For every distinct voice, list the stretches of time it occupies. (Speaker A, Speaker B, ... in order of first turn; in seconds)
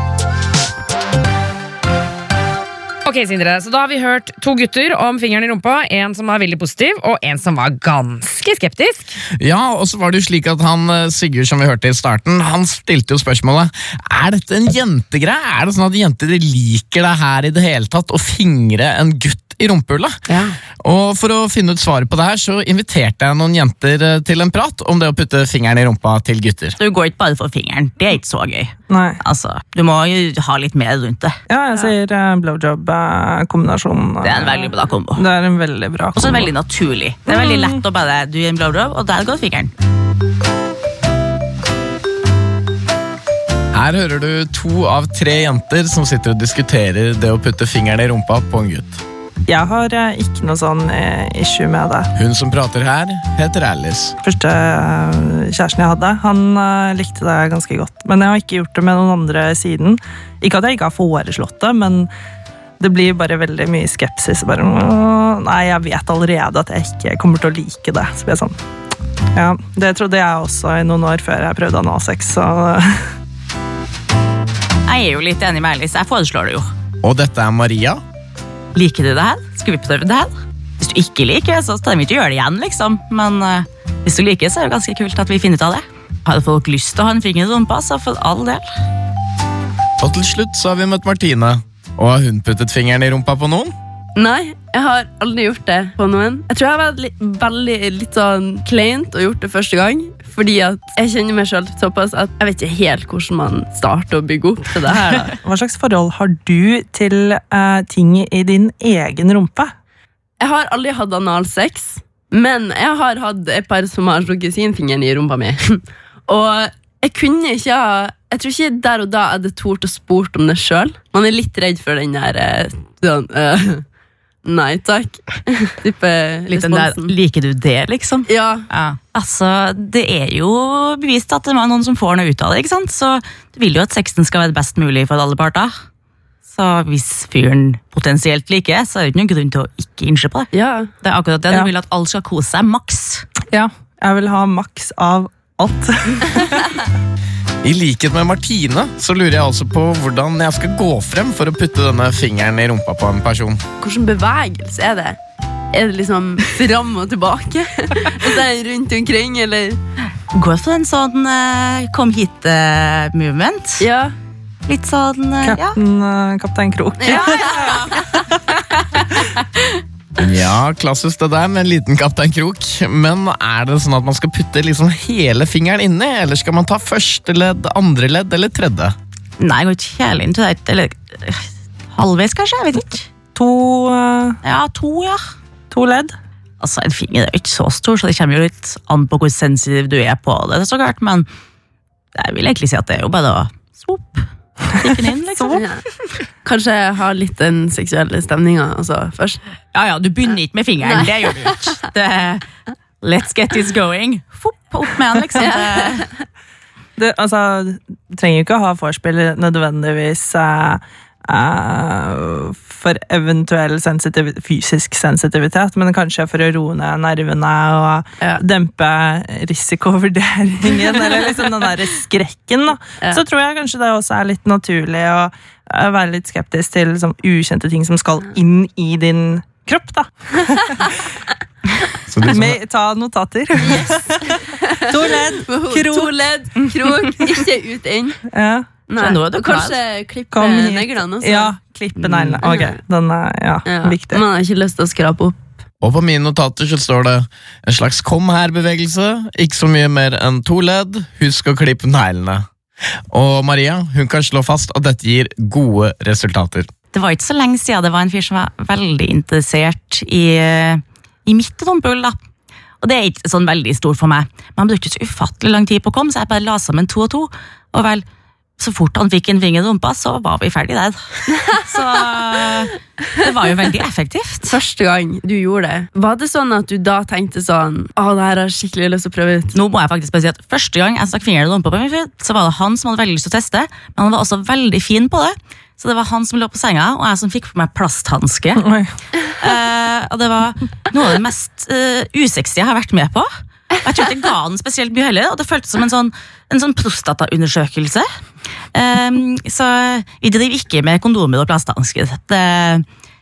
Speaker A: 3.0-9.2, 20.3-20.5
Speaker B: 9.4-20.2, 20.8-26.8, 43.7-49.0, 52.1-54.1, 77.0-78.0, 90.0-93.7, 147.6-153.6, 170.2-178.9, 232.1-232.6, 245.8-252.4, 253.1-256.7
Speaker C: 26.8-31.4, 34.2-35.2, 36.1-39.7, 74.8-76.7, 78.7-88.6, 126.5-135.7, 136.4-143.2, 160.3-163.8, 164.7-165.8, 167.0-168.0, 179.4-183.1, 184.4-185.2, 186.6-191.3, 192.1-195.6, 199.7-202.5, 203.0-206.1, 239.0-239.8, 256.9-262.2, 262.8-268.0, 268.6-274.5, 279.5-288.6, 289.4-293.3, 293.8-298.1, 298.7-302.8
Speaker D: 28.9-29.2, 31.5-36.5, 37.2-37.8, 49.5-52.1, 54.2-62.1, 62.8-68.5, 69.3-73.0, 105.1-109.7, 143.5-146.7, 165.4-168.2, 183.3-184.4, 185.7-186.1, 207.0-231.0, 232.2-237.4, 238.3-238.8, 240.3-244.2, 288.6-288.9
Speaker E: 94.2-105.4, 110.4-123.8, 124.4-127.1, 128.3-128.7, 140.5-140.9, 153.8-155.2, 155.7-159.8, 163.8-164.1, 167.0-167.7, 195.6-195.8, 196.4-199.4, 205.4-205.8, 234.7-238.2, 238.9-242.8, 243.6-245.6, 274.4-279.5